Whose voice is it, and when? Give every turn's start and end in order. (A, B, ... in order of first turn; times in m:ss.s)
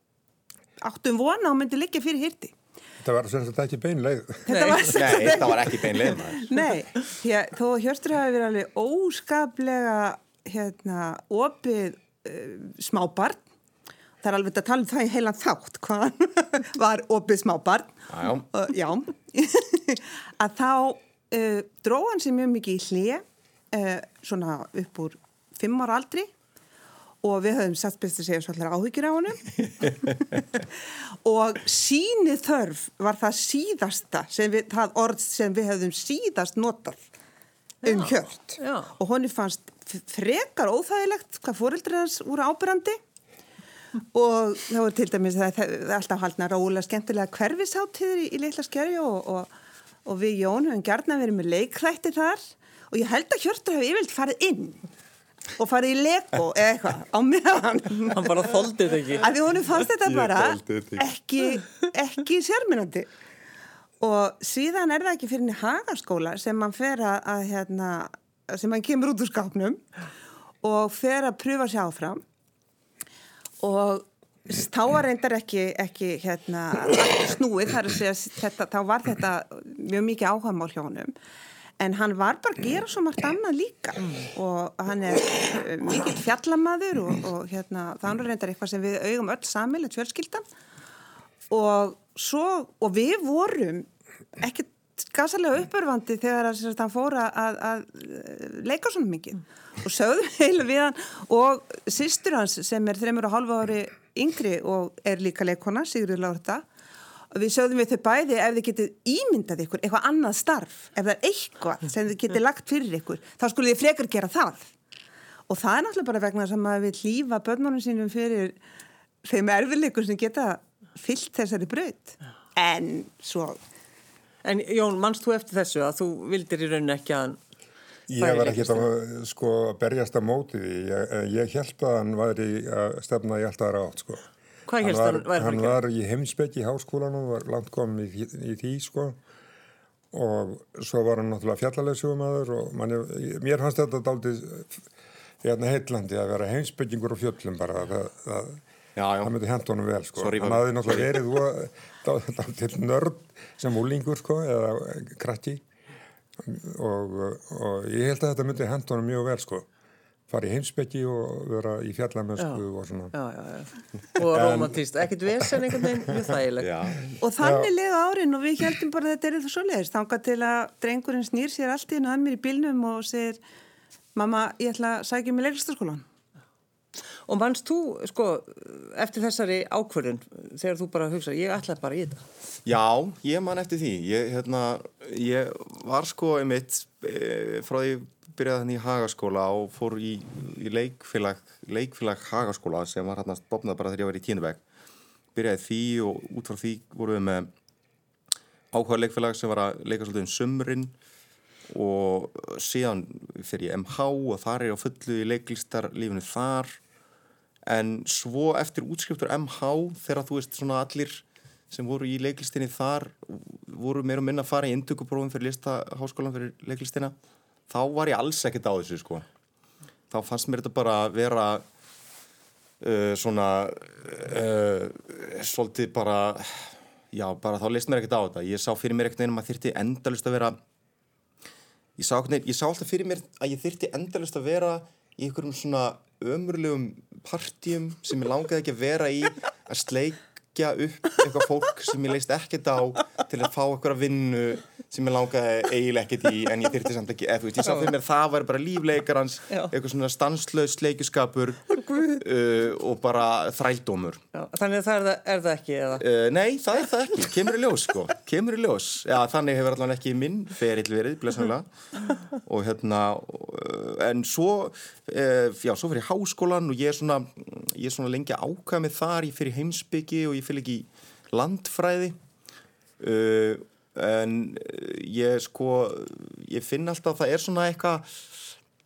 0:00.8-0:02.5 A
0:03.0-0:04.5 B
0:04.5-0:13.4 A
0:04.5-0:05.4 C
0:04.9-0:06.5 D
0:14.2-0:26.3 A
0:18.1-0:18.4 D
0:27.2-0:37.0 A
0:37.8-0:38.9 C
0:37.8-0:43.0 A
0:44.1-0:49.5 A
0:50.0-0:54.8 A
0:55.6-0:58.5 A
0:58.1-0:59.3 C
0:59.2-1:03.1 A
1:00.0-1:01.0 D
1:04.0-1:09.8 A
1:10.6-1:12.2 A
1:13.6-1:21.1 A
1:21.8-1:30.4 A
1:31.5-1:46.6 A
1:47.3-1:54.7 A
1:55.5-1:58.6 A
1:59.2-2:03.6 A
2:04.4-2:07.4 C
2:08.1-2:14.2 B
2:08.2-2:08.9 C
2:14.7-2:15.8 C
2:14.8-2:19.2 B
2:20.1-2:24.8 B
2:25.4-2:28.6 B
2:29.0-2:29.3 D
2:29.2-2:35.6 B
2:30.2-2:31.2 D
2:36.4-2:39.7 B
2:40.3-2:43.1 B
2:42.4-2:46.9 C
2:44.2-2:44.8 B
2:46.6-2:47.0 D
2:47.2-2:53.4 A
2:47.4-2:47.7 B
2:54.1-2:56.0 A
2:57.3-3:02.2 C
3:02.6-3:14.6 D
3:15.3-3:17.5 D
3:18.7-3:20.9 D
3:21.7-3:26.8 D
3:27.6-3:37.1 D
3:37.7-3:39.2 D
3:40.1-3:41.6 D
3:42.8-3:50.6 D
3:52.0-4:14.2 D
4:07.6-4:07.9 C
4:14.3-4:16.0 C
4:16.0-4:21.7 D
4:22.3-4:32.2 D
4:33.0-4:38.1 D